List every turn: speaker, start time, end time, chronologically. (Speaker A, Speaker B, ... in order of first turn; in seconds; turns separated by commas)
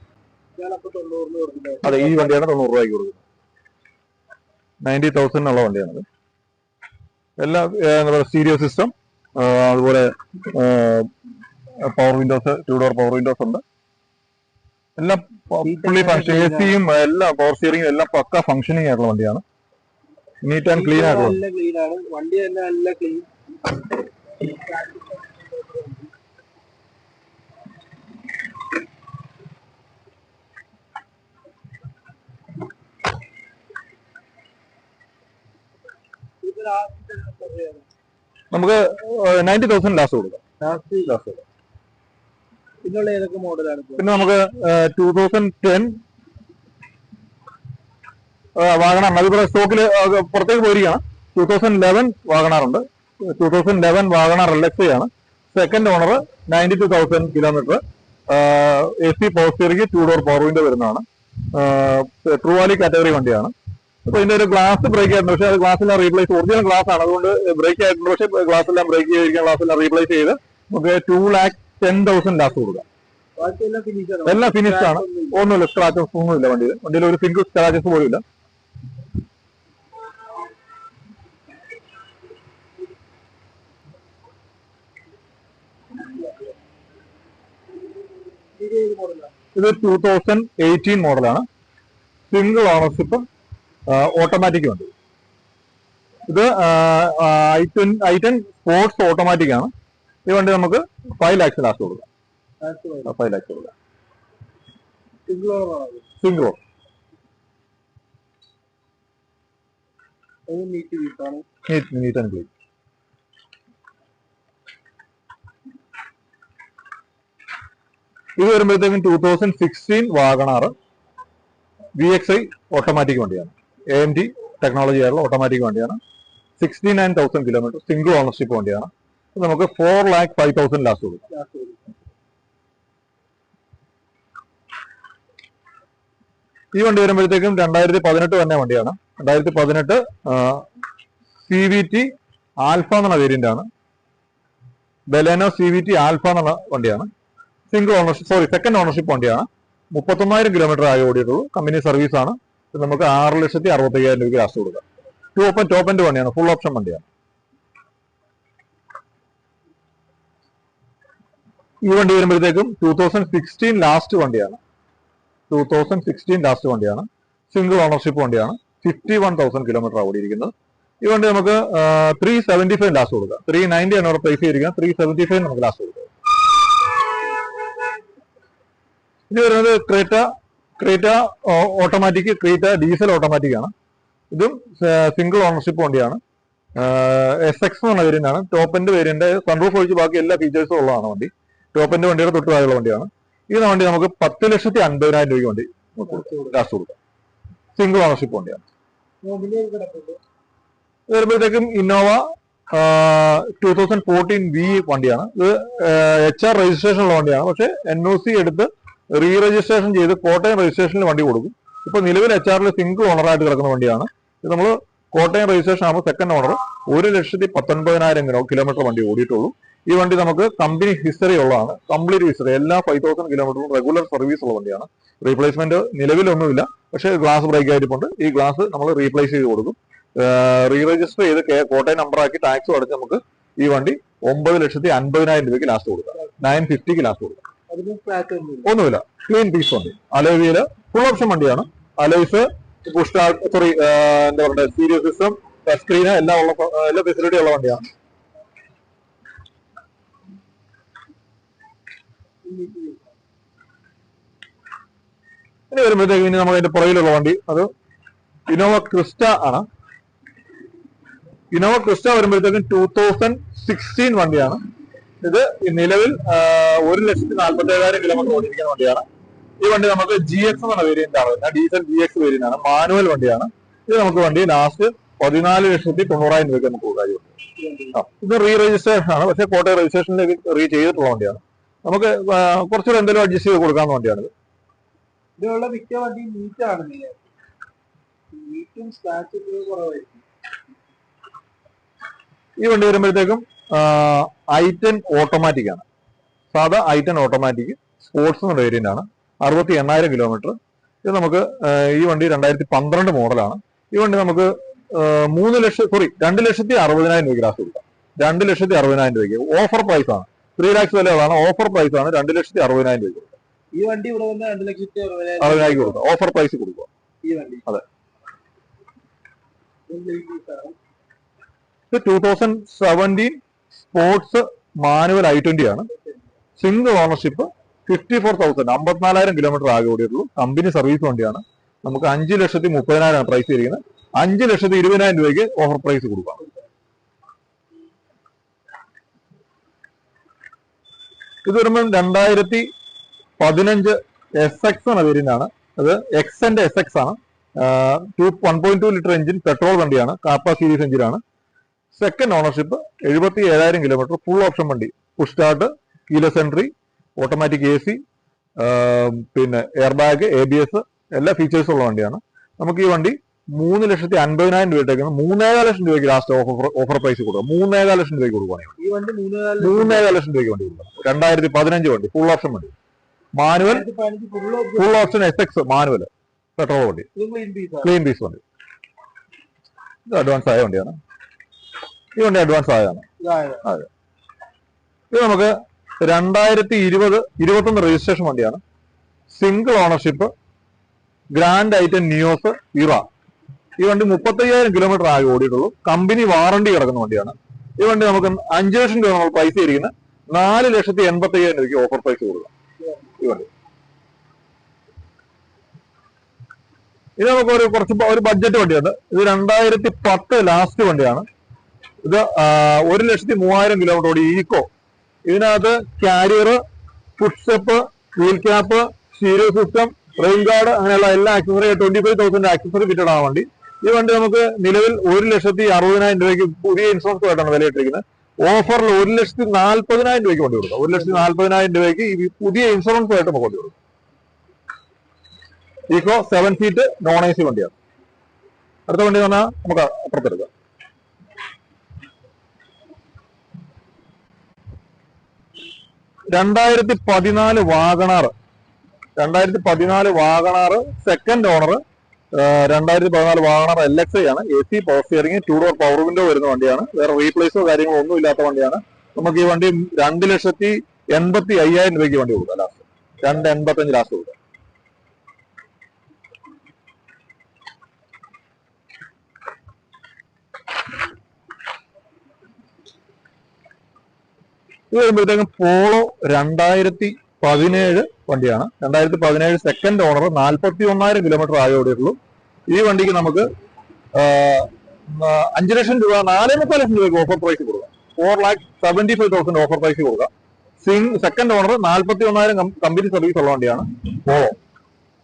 Speaker A: 0.6-2.4, Speaker B: 1.8-3.2, Speaker B: 4.8-6.0, Speaker B: 7.4-11.1, Speaker B: 11.8-13.6, Speaker B: 15.0-19.4, Speaker A: 15.6-16.8, Speaker B: 20.4-21.4, Speaker A: 20.7-23.3, Speaker A: 24.4-26.1, Speaker A: 36.4-37.9, Speaker B: 38.5-40.4, Speaker A: 40.6-41.2, Speaker B: 41.0-41.4, Speaker A: 42.8-44.1, Speaker B: 44.0-45.9, Speaker B: 48.5-63.5, Speaker B: 64.0-72.8, Speaker A: 73.4-75.5, Speaker B: 74.2-78.2, Speaker A: 88.5-89.3, Speaker B: 89.5-91.5, Speaker B: 92.3-93.2, Speaker B: 93.9-94.9, Speaker B: 96.3-99.7, Speaker B: 100.2-102.0, Speaker A: 102.6-103.1, Speaker B: 103.0-103.7, Speaker A: 105.3-106.0, Speaker B: 106.2-106.6, Speaker A: 110.5-111.5, Speaker B: 111.7-112.5, Speaker B: 118.4-120.7, Speaker B: 122.0-126.0, Speaker B: 126.6-131.2, Speaker A: 131.3-131.8, Speaker B: 136.7-140.6, Speaker B: 141.4-142.1, Speaker B: 142.6-143.7, Speaker B: 145.1-147.1, Speaker B: 147.7-154.8, Speaker B: 155.3-157.0, Speaker B: 161.8-164.6, Speaker B: 165.5-176.1, Speaker B: 179.3-180.2, Speaker B: 180.8-183.7, Speaker B: 184.3-186.2, Speaker B: 186.8-196.9, Speaker A: 196.1-196.6, Speaker B: 197.8-198.6, Speaker A: 199.2-200.2, Speaker B: 201.1-237.4, Speaker A: 237.7-238.7, Speaker B: 238.6-247.8, Speaker A: 252.4-253.1, Speaker B: 255.7-257.7, Speaker B: 258.5-259.6, Speaker B: 261.5-264.6, Speaker B: 265.2-269.0, Speaker B: 269.6-277.3, Speaker A: 277.6-278.0, Speaker B: 277.9-284.3, Speaker A: 285.4-287.2, Speaker A: 288.3-290.2, Speaker B: 292.6-295.8, Speaker B: 296.5-313.3, Speaker A: 313.7-316.0, Speaker B: 315.4-316.9, Speaker A: 317.2-317.6, Speaker A: 319.9-320.8, Speaker B: 321.9-325.9, Speaker B: 326.6-336.4, Speaker B: 341.4-342.7, Speaker B: 343.4-351.2, Speaker B: 351.9-358.0, Speaker B: 358.6-368.7, Speaker A: 368.8-370.2, Speaker B: 369.6-372.7, Speaker B: 373.3-373.8, Speaker A: 373.6-375.1, Speaker B: 374.8-377.1, Speaker A: 377.1-377.9, Speaker B: 377.8-378.4, Speaker B: 380.1-381.0, Speaker B: 382.2-383.0, Speaker A: 383.2-383.6, Speaker B: 385.1-388.6, Speaker B: 389.3-390.3, Speaker B: 391.3-393.0, Speaker B: 393.8-402.5, Speaker B: 403.2-403.5, Speaker B: 407.2-411.3, Speaker B: 412.0-414.7, Speaker B: 415.2-416.6, Speaker B: 417.2-433.7, Speaker B: 435.9-437.7, Speaker B: 438.9-440.5, Speaker B: 446.3-448.3, Speaker B: 449.2-451.8, Speaker B: 452.3-464.3, Speaker B: 474.9-482.2, Speaker B: 482.7-483.5, Speaker B: 484.1-490.3, Speaker B: 490.8-494.5